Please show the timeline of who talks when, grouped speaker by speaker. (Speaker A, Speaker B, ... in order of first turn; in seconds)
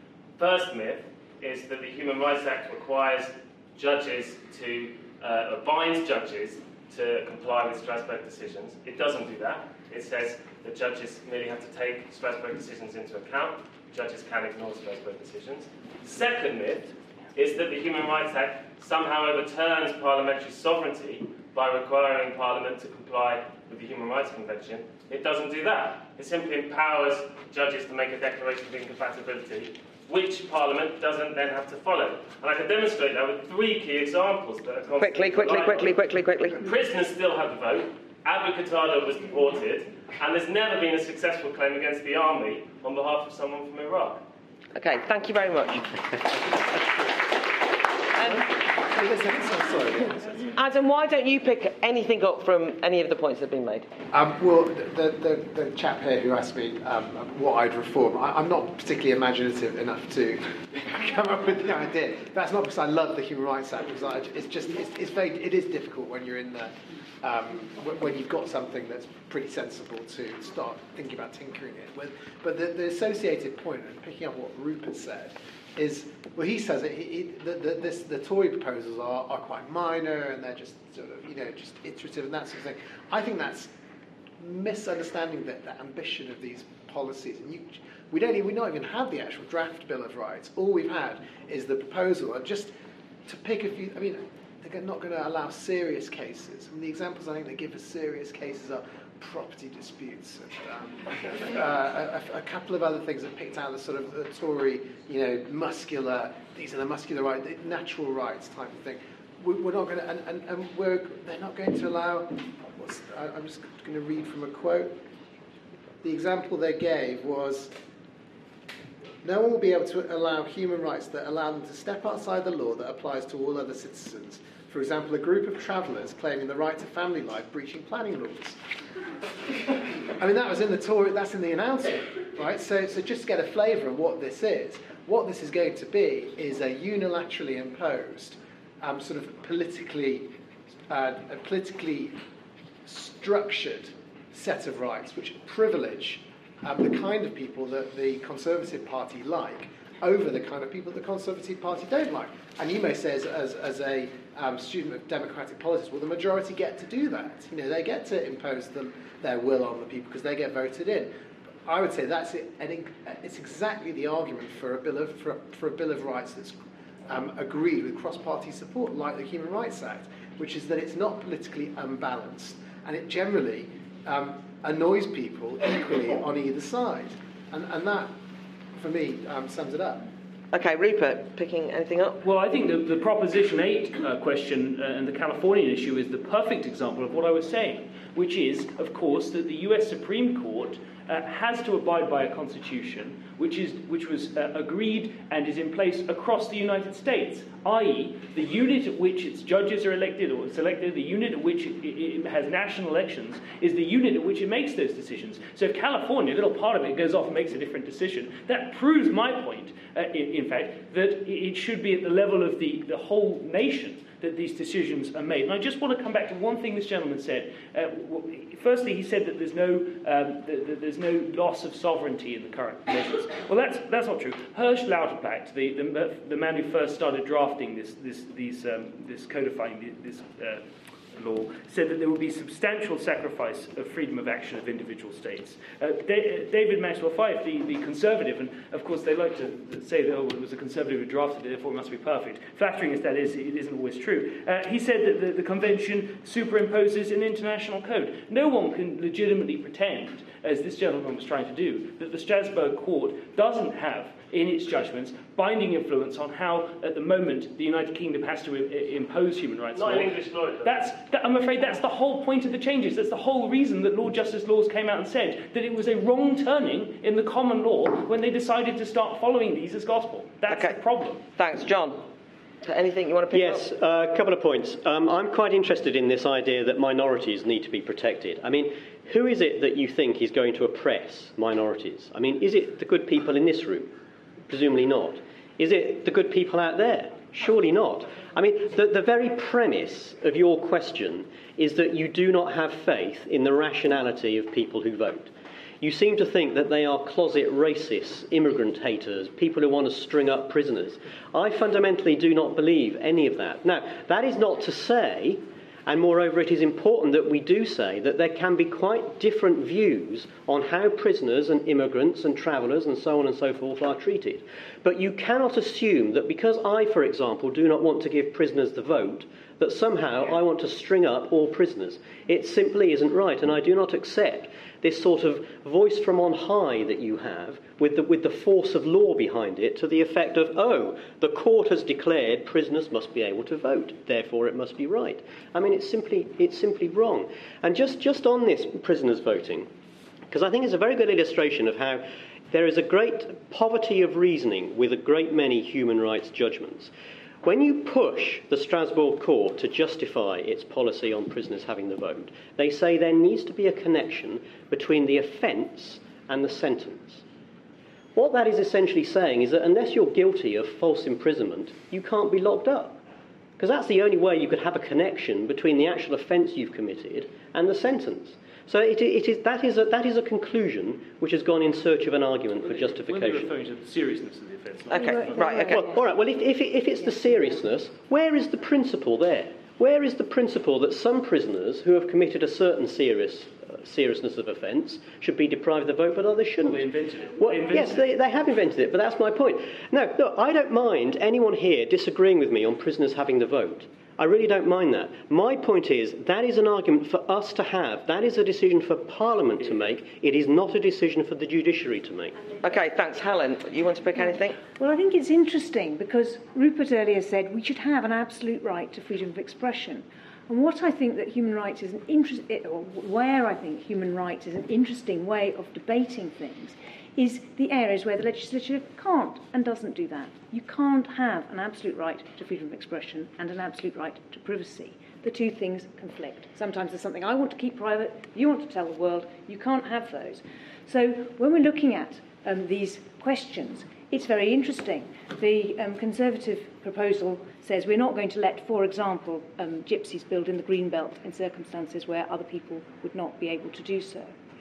Speaker A: 0.4-36.0, 36.5-44.2, 259.8-260.7
Speaker B: 35.0-36.6, 44.8-45.9, 48.2-48.4, 50.6-53.9, 180.5-182.2, 270.5-270.8, 271.4-272.0, 272.6-273.7, 374.9-375.9, 402.6-404.6
Speaker C: 48.9-50.5, 54.1-83.7, 84.4-92.7, 93.2-115.0, 116.0-117.7, 119.2-128.6, 130.1-140.3, 140.9-142.2, 142.8-161.1, 161.7-178.1, 178.8-180.0
Speaker D: 182.2-271.2, 372.6-375.6, 386.6-388.0
Speaker E: 273.3-283.9, 284.5-339.7, 340.3-346.9, 347.4-357.2, 358.2-363.0, 363.6-373.5, 375.7-386.9, 387.4-402.4
Speaker F: 374.9-376.1, 404.6-444.3